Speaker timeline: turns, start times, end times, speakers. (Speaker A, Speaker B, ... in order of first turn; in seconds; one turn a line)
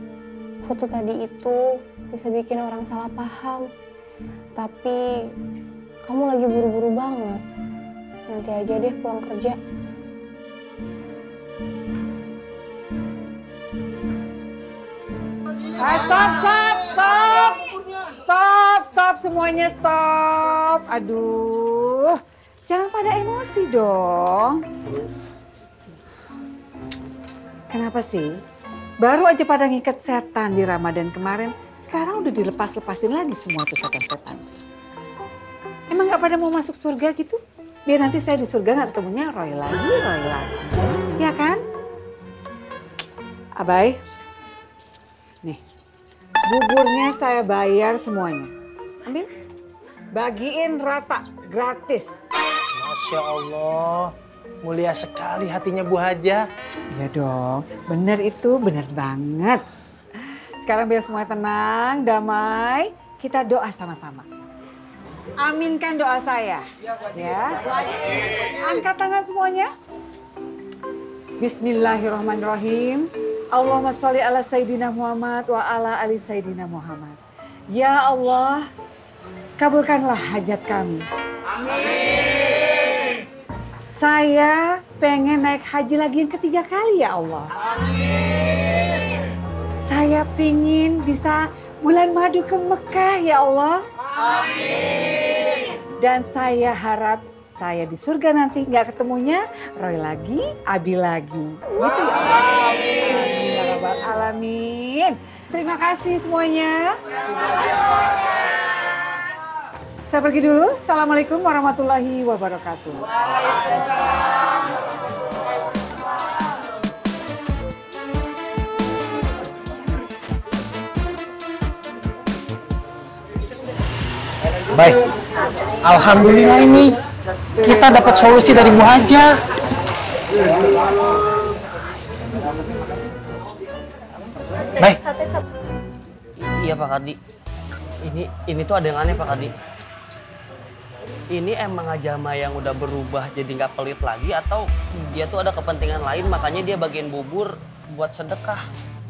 Speaker A: 0.6-3.6
Speaker A: 4.6-5.0
Speaker A: 6.0-7.4
Speaker A: 8.3-9.6
Speaker B: 15.8-24.6
Speaker B: 27.7-28.4
Speaker B: 29.0-34.5
Speaker B: 35.9-41.6
Speaker B: 43.6-44.0
Speaker B: 46.5-48.5
Speaker B: 50.1-52.2
Speaker C: 52.8-54.1
Speaker C: 54.6-56.4
Speaker B: 57.0-59.6
Speaker B: 60.6-64.3
Speaker B: 65.4-69.7
Speaker B: 71.4-77.2
Speaker B: 77.7-78.7
Speaker B: 79.6-81.0
Speaker B: 83.9-87.5
Speaker B: 89.9-93.8
Speaker B: 96.0-106.9
Speaker B: 110.1-113.1
Speaker C: 124.7-125.0
Speaker C: 125.8-127.0
Speaker C: 127.6-129.4
Speaker D: 136.4-137.2
Speaker D: 138.0-139.5
Speaker D: 141.3-148.6